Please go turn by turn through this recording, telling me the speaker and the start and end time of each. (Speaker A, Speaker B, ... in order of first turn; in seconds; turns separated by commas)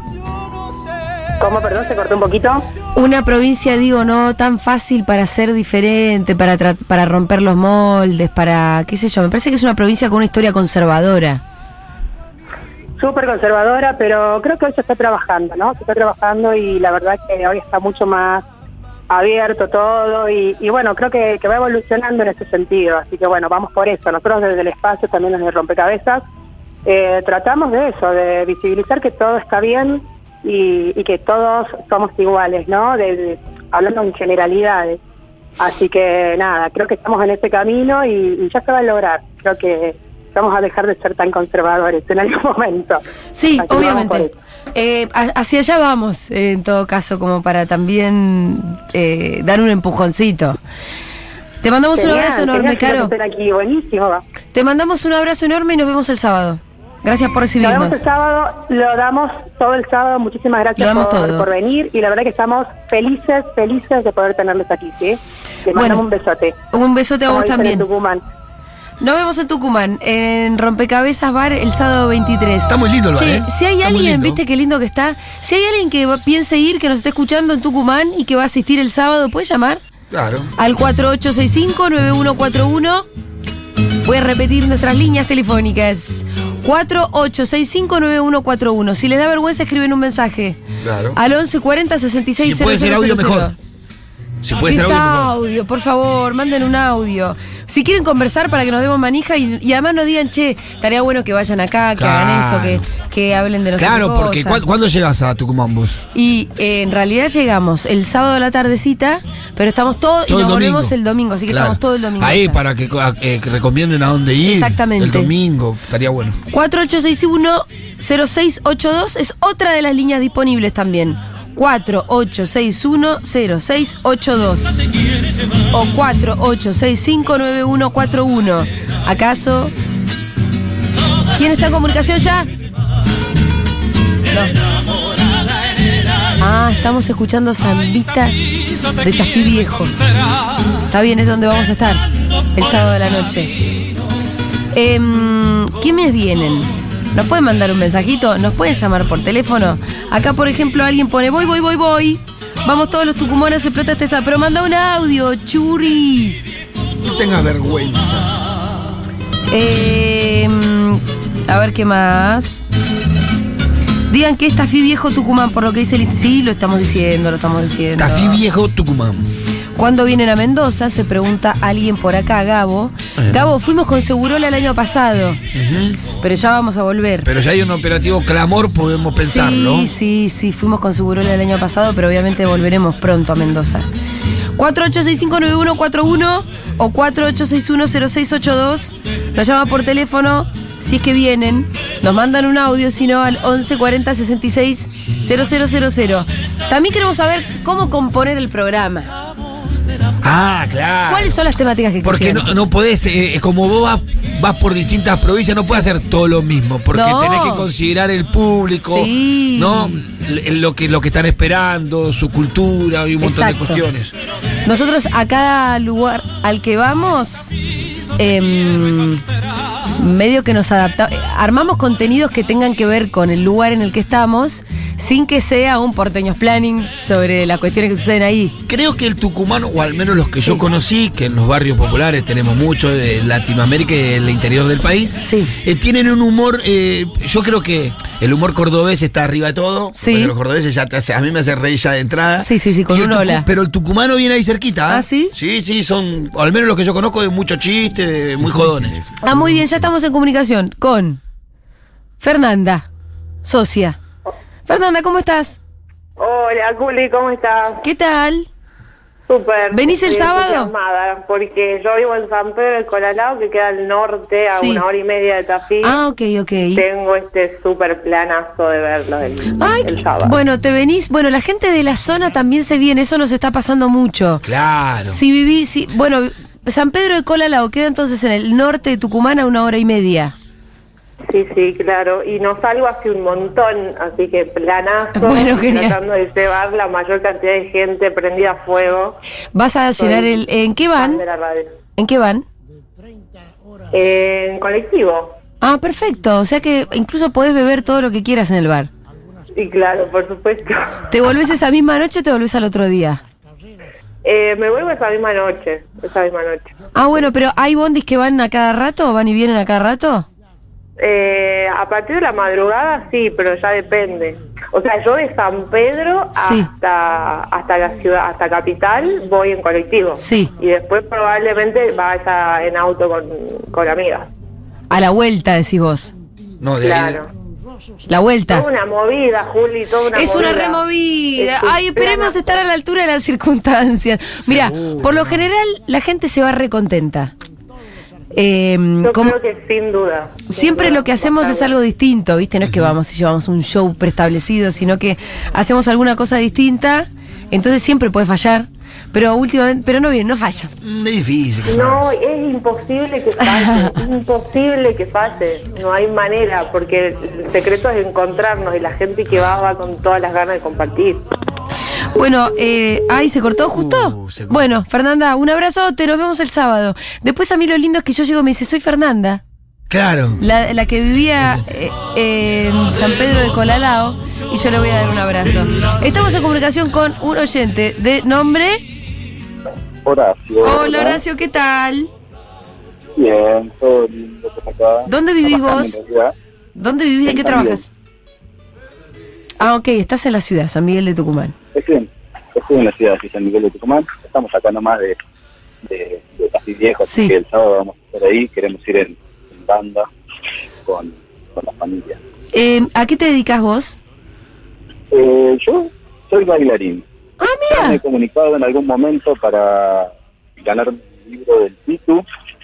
Speaker A: 1.4-2.7, Speaker B: 3.0-11.4, Speaker A: 13.0-18.4, Speaker A: 19.1-26.2, Speaker A: 26.9-35.0, Speaker A: 35.6-43.0, Speaker B: 43.4-50.6, Speaker A: 43.6-44.3, Speaker B: 51.6-53.1, Speaker A: 52.0-54.2, Speaker B: 54.5-58.0, Speaker A: 57.6-66.6, Speaker B: 60.8-61.5, Speaker B: 65.7-66.0, Speaker B: 66.7-67.9, Speaker A: 67.3-68.2, Speaker B: 69.0-79.8, Speaker C: 72.7-74.4, Speaker C: 80.1-80.5, Speaker B: 80.6-83.1, Speaker B: 84.0-90.6, Speaker C: 90.8-91.2, Speaker B: 91.2-93.5, Speaker C: 92.4-93.5, Speaker C: 94.4-95.3, Speaker B: 94.6-104.6, Speaker C: 102.0-102.9, Speaker C: 103.8-106.0, Speaker B: 106.1-112.6, Speaker C: 110.3-111.0, Speaker C: 111.5-116.4, Speaker B: 114.4-115.3, Speaker B: 116.5-124.8, Speaker B: 125.7-129.7, Speaker B: 131.3-132.5, Speaker B: 134.3-134.5, Speaker B: 136.4-138.3, Speaker B: 139.0-139.9, Speaker B: 140.9-142.0, Speaker B: 142.6-143.5, Speaker B: 144.7-156.4, Speaker C: 157.0-158.3, Speaker B: 159.5-162.7, Speaker B: 164.1-168.4, Speaker C: 168.0-169.3, Speaker B: 169.8-175.4, Speaker C: 175.5-176.0, Speaker B: 176.2-177.3, Speaker C: 177.2-179.9, Speaker B: 179.2-183.9, Speaker B: 184.6-199.1, Speaker C: 200.2-201.4, Speaker B: 201.1-202.5, Speaker C: 202.0-214.1, Speaker B: 206.9-207.7, Speaker B: 208.8-210.0, Speaker B: 213.2-213.8, Speaker B: 214.6-217.6, Speaker B: 218.2-219.2, Speaker B: 220.0-228.6, Speaker C: 228.7-249.1, Speaker B: 235.2-235.5, Speaker B: 239.9-240.3, Speaker B: 242.4-243.4, Speaker B: 244.9-245.3, Speaker B: 249.2-251.2, Speaker B: 252.2-252.9, Speaker B: 253.4-254.0, Speaker B: 254.7-255.6, Speaker D: 256.2-257.9, Speaker B: 257.8-258.5, Speaker D: 259.3-266.0, Speaker B: 259.7-260.7, Speaker B: 264.5-264.8, Speaker B: 265.8-266.8, Speaker D: 266.8-270.4, Speaker B: 269.6-274.4, Speaker C: 274.4-275.2, Speaker B: 275.1-280.4, Speaker D: 281.3-289.2, Speaker B: 285.1-286.0, Speaker B: 289.6-291.2, Speaker D: 290.0-290.4, Speaker D: 290.9-291.7, Speaker B: 292.0-292.4, Speaker D: 293.9-295.4, Speaker B: 295.6-298.9, Speaker D: 299.5-300.9, Speaker B: 301.1-303.2, Speaker D: 304.2-306.7, Speaker B: 306.9-310.3, Speaker D: 311.0-324.3, Speaker B: 316.4-316.7, Speaker B: 320.2-320.5, Speaker B: 324.9-326.1, Speaker C: 326.6-327.2, Speaker D: 326.8-327.3, Speaker B: 328.1-328.6, Speaker D: 328.5-332.6, Speaker B: 330.1-337.3, Speaker C: 334.4-335.4, Speaker B: 338.3-339.4, Speaker D: 339.0-341.7, Speaker B: 340.5-350.7, Speaker C: 342.6-342.9, Speaker C: 350.8-352.1, Speaker D: 351.6-361.3, Speaker B: 353.4-354.0, Speaker B: 362.1-369.4, Speaker C: 363.7-364.7, Speaker C: 369.9-370.4, Speaker B: 370.4-378.8, Speaker E: 380.1-381.2, Speaker B: 380.6-382.1, Speaker E: 383.2-386.3, Speaker B: 385.1-386.0, Speaker B: 386.8-387.9, Speaker E: 387.3-387.8, Speaker B: 389.6-391.6, Speaker E: 391.7-395.2, Speaker E: 395.9-400.1, Speaker B: 397.1-397.4, Speaker E: 400.9-402.2, Speaker B: 402.5-404.0, Speaker E: 405.1-407.1, Speaker B: 407.4-408.0, Speaker E: 407.7-412.2